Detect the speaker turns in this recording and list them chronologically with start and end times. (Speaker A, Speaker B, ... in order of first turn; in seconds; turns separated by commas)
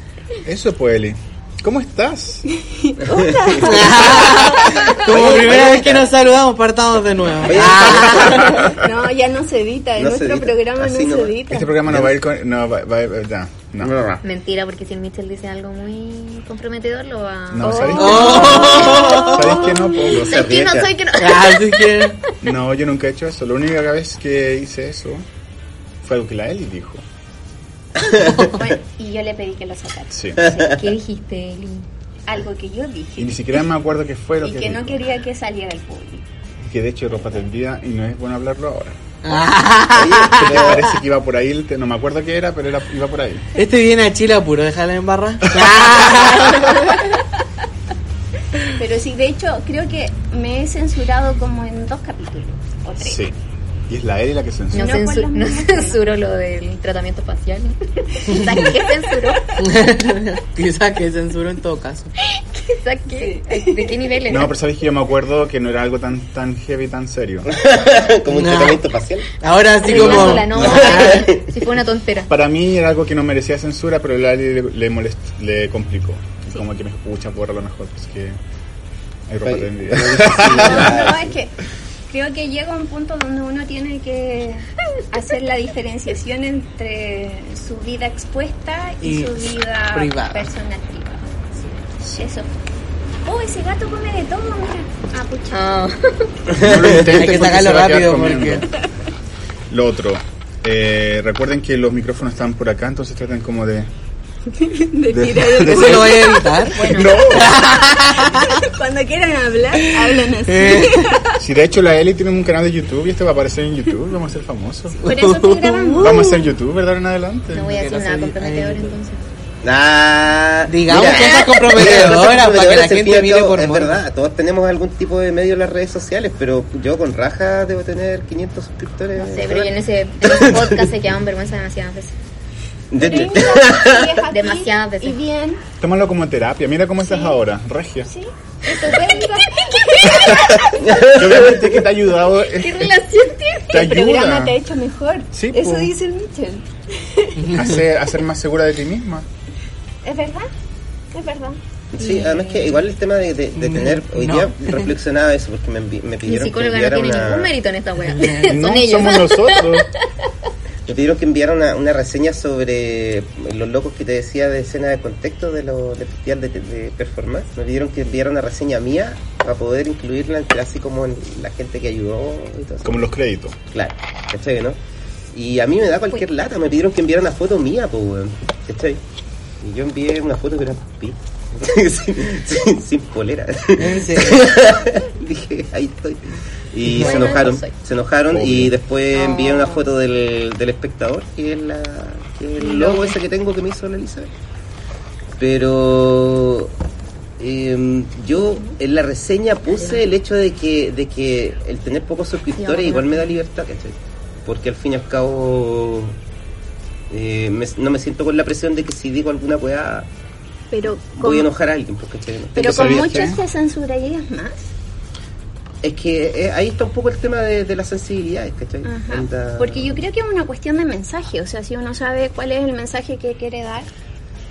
Speaker A: 0.4-2.4, Speaker B: 2.5-5.2, Speaker C: 3.1-4.1, Speaker D: 3.6-8.4, Speaker C: 5.0-6.1, Speaker C: 7.4-8.7, Speaker B: 7.8-11.8, Speaker C: 9.9-12.2, Speaker A: 11.5-14.0, Speaker C: 13.8-14.2, Speaker E: 14.2-22.0, Speaker A: 17.5-20.9, Speaker D: 17.9-19.6, Speaker D: 21.2-22.2, Speaker A: 22.4-25.2, Speaker A: 26.0-27.0, Speaker C: 28.0-28.5, Speaker B: 28.6-30.7, Speaker A: 30.1-30.4, Speaker E: 30.7-31.9, Speaker B: 32.3-33.6, Speaker A: 33.2-35.1, Speaker B: 34.4-36.2, Speaker A: 36.6-39.0, Speaker D: 39.2-40.9, Speaker C: 39.9-40.9, Speaker A: 40.2-43.5, Speaker D: 43.5-47.0, Speaker B: 46.2-47.2, Speaker B: 48.8-53.2, Speaker A: 53.0-53.4, Speaker A: 53.9-55.0, Speaker E: 54.7-59.6, Speaker B: 54.8-56.0, Speaker D: 59.6-62.1, Speaker E: 62.5-64.5, Speaker B: 63.1-63.9, Speaker A: 64.3-67.5, Speaker C: 67.4-69.3, Speaker D: 68.3-68.8, Speaker D: 69.4-71.3, Speaker E: 69.8-72.3, Speaker C: 69.8-71.6, Speaker A: 72.3-78.4, Speaker A: 79.3-81.0, Speaker C: 79.4-81.4, Speaker B: 80.4-81.5, Speaker B: 82.1-91.4, Speaker D: 89.0-90.5, Speaker B: 92.0-92.5, Speaker B: 93.2-95.6, Speaker E: 95.5-96.2, Speaker C: 96.5-97.1, Speaker A: 96.6-98.7, Speaker D: 96.9-98.7, Speaker A: 99.7-103.9, Speaker B: 104.5-106.4, Speaker A: 105.1-107.6, Speaker D: 105.6-108.5, Speaker E: 106.8-107.2, Speaker B: 107.9-111.4, Speaker D: 109.9-111.1, Speaker A: 111.4-115.0, Speaker D: 115.0-116.3, Speaker B: 115.0-116.5, Speaker A: 116.0-117.7, Speaker E: 117.5-119.2, Speaker D: 117.7-118.9, Speaker C: 119.6-130.8, Speaker D: 120.7-124.0, Speaker E: 121.0-121.6, Speaker E: 129.2-132.2, Speaker C: 132.9-134.2, Speaker B: 133.0-135.6, Speaker E: 134.3-135.2, Speaker A: 135.8-138.1, Speaker B: 137.0-137.4, Speaker B: 138.1-141.1, Speaker E: 138.7-139.5, Speaker A: 140.1-143.1, Speaker C: 140.8-141.8, Speaker B: 142.5-147.6, Speaker A: 143.7-144.6, Speaker A: 145.3-145.9, Speaker D: 147.4-147.7, Speaker A: 147.5-149.3, Speaker B: 150.0-150.5, Speaker B: 151.1-151.6, Speaker C: 151.9-157.5, Speaker E: 152.0-152.8, Speaker D: 153.6-154.9, Speaker E: 156.2-159.4, Speaker D: 158.1-158.6, Speaker A: 158.5-159.9, Speaker C: 160.8-173.1, Speaker A: 172.8-173.6, Speaker C: 173.7-174.8, Speaker C: 175.3-179.0, Speaker C: 179.6-194.3, Speaker D: 183.8-184.4, Speaker D: 186.8-187.4, Speaker E: 187.0-187.7, Speaker A: 188.3-188.7, Speaker B: 189.1-189.8, Speaker E: 192.7-193.0, Speaker C: 195.4-196.7, Speaker C: 197.4-206.2, Speaker B: 202.6-203.2, Speaker C: 207.1-210.1, Speaker B: 210.7-211.5, Speaker C: 211.1-213.4, Speaker B: 212.5-214.7, Speaker A: 212.6-213.4, Speaker C: 215.8-220.0, Speaker B: 218.8-223.9